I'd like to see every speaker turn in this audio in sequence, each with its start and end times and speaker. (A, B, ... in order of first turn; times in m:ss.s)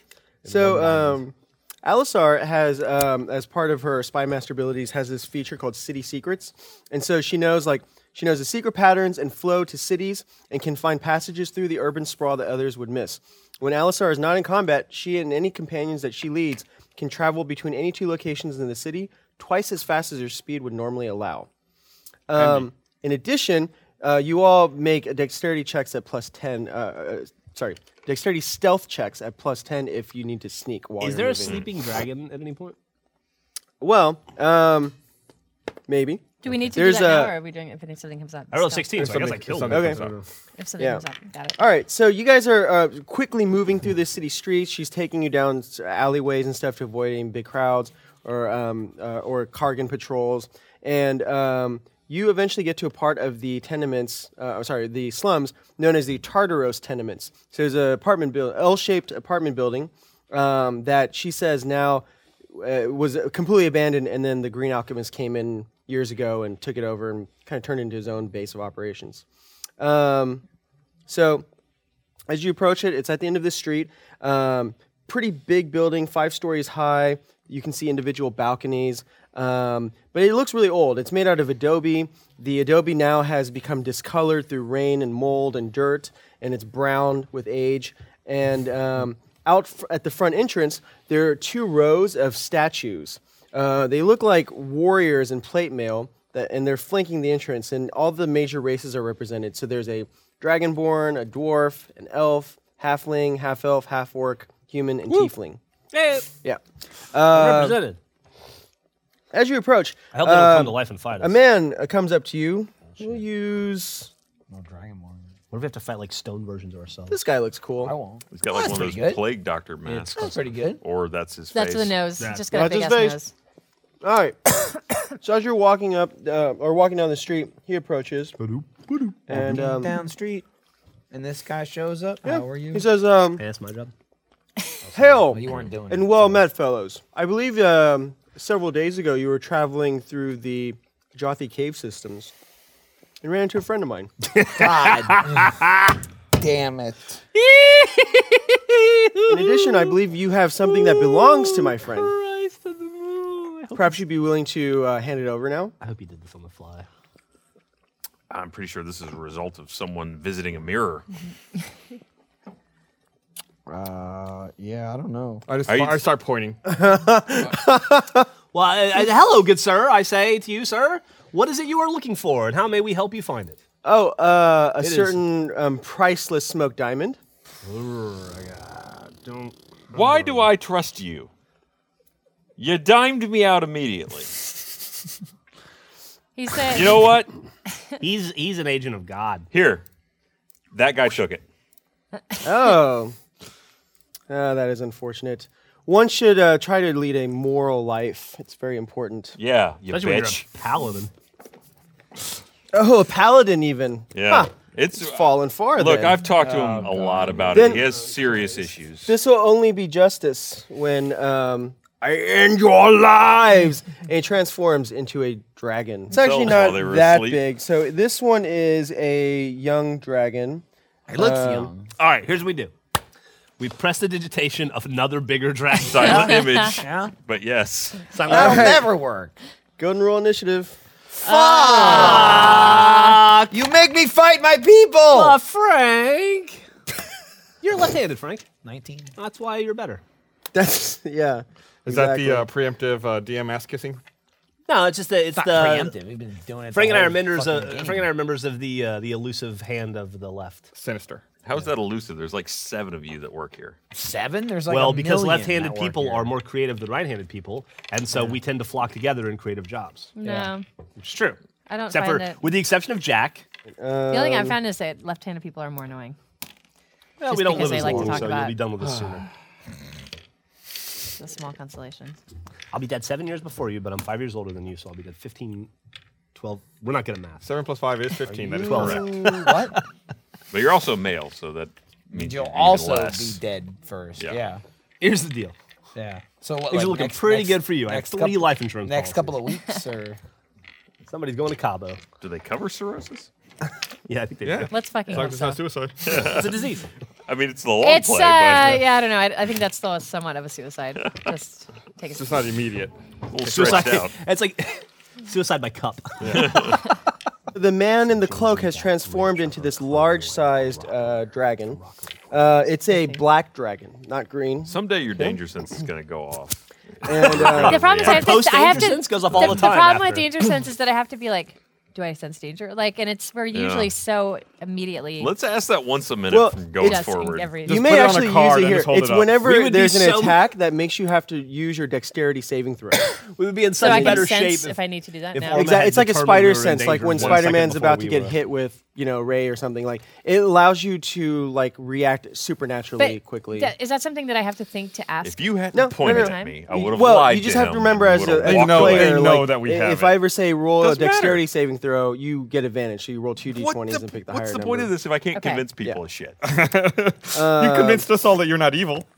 0:00.4-0:01.2 A
0:00.5-0:21.5 B
0:22.3-0:31.6 B
0:22.4-0:22.7 C
0:31.0-0:32.8 A
0:33.8-0:35.0 B
0:35.9-0:37.4 B
0:36.4-0:39.1 D
0:38.5-0:40.2 A
0:39.0-0:40.2 C
0:39.7-0:40.0 B
0:40.6-0:41.6 D
0:41.6-1:09.2 B
1:09.8-1:10.4 B
1:11.1-1:11.4 B
1:12.3-1:45.6 B
1:45.9-1:46.3 A
1:47.1-1:47.9 B
1:47.3-1:48.0 A
1:49.3-1:54.1 B
1:50.1-1:51.4 A
1:52.9-1:53.2 A
1:54.5-1:55.4 E
1:55.5-1:57.2 A
1:57.1-1:58.0 B
1:57.8-1:59.3 E
1:58.3-2:02.0 F
1:59.9-2:00.4 A
2:00.1-2:00.8 E
2:01.5-2:03.3 D
2:02.2-2:02.6 A
2:02.5-2:03.2 B
2:04.0-2:08.4 B
2:08.4-2:09.2 A
2:09.3-2:10.0 B
2:09.3-2:10.5 E
2:11.1-2:12.9 E
2:12.2-2:13.4 B
2:13.4-2:13.9 A
2:14.9-2:16.5 E
2:14.9-2:22.3 B
2:23.2-2:24.1 B
2:24.3-2:26.0 A
2:24.5-2:25.6 E
2:26.3-2:27.2 E
2:27.3-2:30.0 A
2:29.3-2:32.1 B
2:30.6-2:34.0 A
2:33.7-2:35.8 B
2:35.8-2:36.9 A
2:38.3-2:41.0 F
2:43.7-2:45.4 E
2:45.5-2:46.6 C
2:45.7-2:46.0 F
2:46.7-2:48.3 B
2:48.5-2:53.6 A
2:53.8-2:57.2 B
2:54.8-2:55.2 A
2:57.6-3:00.5 A
2:59.9-3:01.3 F
3:02.6-3:04.3 F
3:06.4-3:07.0 D
3:06.7-3:07.3 F
3:08.0-3:09.5 A
3:09.5-3:09.8 F
3:10.7-3:11.4 F
3:12.4-3:13.2 B
3:14.3-3:19.4 B
3:19.4-3:20.5 F
3:19.9-3:21.1 A
3:22.7-3:26.3 B
3:24.1-3:29.2 F
3:27.3-3:28.6 A
3:27.5-3:27.9 B
3:29.1-3:40.6 B
3:36.1-3:37.5 F
3:41.1-3:41.9 E
3:41.2-3:41.7 B
3:42.0-3:42.7 A
3:43.6-3:46.3 A
3:45.8-3:48.1 F
3:46.0-3:47.1 E
3:48.1-3:48.8 A
3:48.2-3:48.9 B
3:48.3-3:49.4 E
3:49.8-3:50.8 B
3:51.2-3:55.4 E
3:51.3-3:53.5 A
3:51.6-3:52.2 D
3:55.1-3:56.6 A
3:57.6-3:58.5 A
3:58.6-3:59.1 E
3:59.2-4:00.0 A
4:00.5-4:02.5 B
4:01.9-4:04.0 C
4:04.7-4:06.0 A
4:05.3-4:08.1 E
4:06.7-4:10.7 A
4:10.7-4:11.2 C
4:11.4-4:13.8 F
4:13.9-4:16.4 E
4:14.7-4:23.4 A
4:20.2-4:20.6 D
4:21.7-4:22.4 D
4:23.8-4:24.6 B
4:24.1-4:26.2 D
4:27.2-4:29.3 A
4:27.3-4:28.6 D
4:31.2-4:32.2 D
4:32.7-4:35.7 A
4:36.3-4:37.5 A
4:37.4-4:39.2 C
4:38.2-4:39.7 A
4:38.6-4:39.8 E
4:40.5-4:43.4 F
4:42.1-4:44.6 E
4:44.2-4:44.4 F
4:45.0-4:45.6 A
4:46.0-4:50.2 E
4:46.7-4:49.4 A
4:51.0-4:52.0 A
4:52.2-4:53.3 F
4:54.1-4:55.6 A
4:54.4-4:56.3 C
4:54.7-4:55.6 D
4:56.0-4:56.5 F
4:56.2-4:56.9 A
4:57.3-4:58.8 F
4:57.8-5:02.5 D
5:01.0-5:01.3 F
5:02.1-5:02.9 C
5:03.3-5:04.2 F
5:03.4-5:06.8 A
5:06.2-5:06.6 C
5:06.3-5:06.8 F
5:07.5-5:15.4 B
5:08.1-5:12.4 A
5:12.9-5:13.2 D
5:14.7-5:19.7 F
5:17.0-5:18.0 B
5:17.4-5:20.5 A
5:17.5-5:25.3 D
5:23.5-5:23.9 F
5:25.2-5:27.6 F
5:26.3-5:27.0 B
5:26.8-5:28.0 D
5:27.7-5:29.4 C
5:27.7-5:33.2 B
5:29.4-5:30.4 A
5:33.1-5:34.8 A
5:33.8-5:35.7 D
5:33.8-5:34.3 B
5:35.3-5:38.4 A
5:35.5-5:43.7 B
5:43.0-5:46.6 D
5:45.2-5:49.3 F
5:45.7-5:54.9 B
5:48.4-5:50.2 C
5:50.8-5:51.4 F
5:53.5-5:56.4 F
5:55.3-5:55.6 D
5:56.4-5:59.1 C
5:57.4-5:58.1 B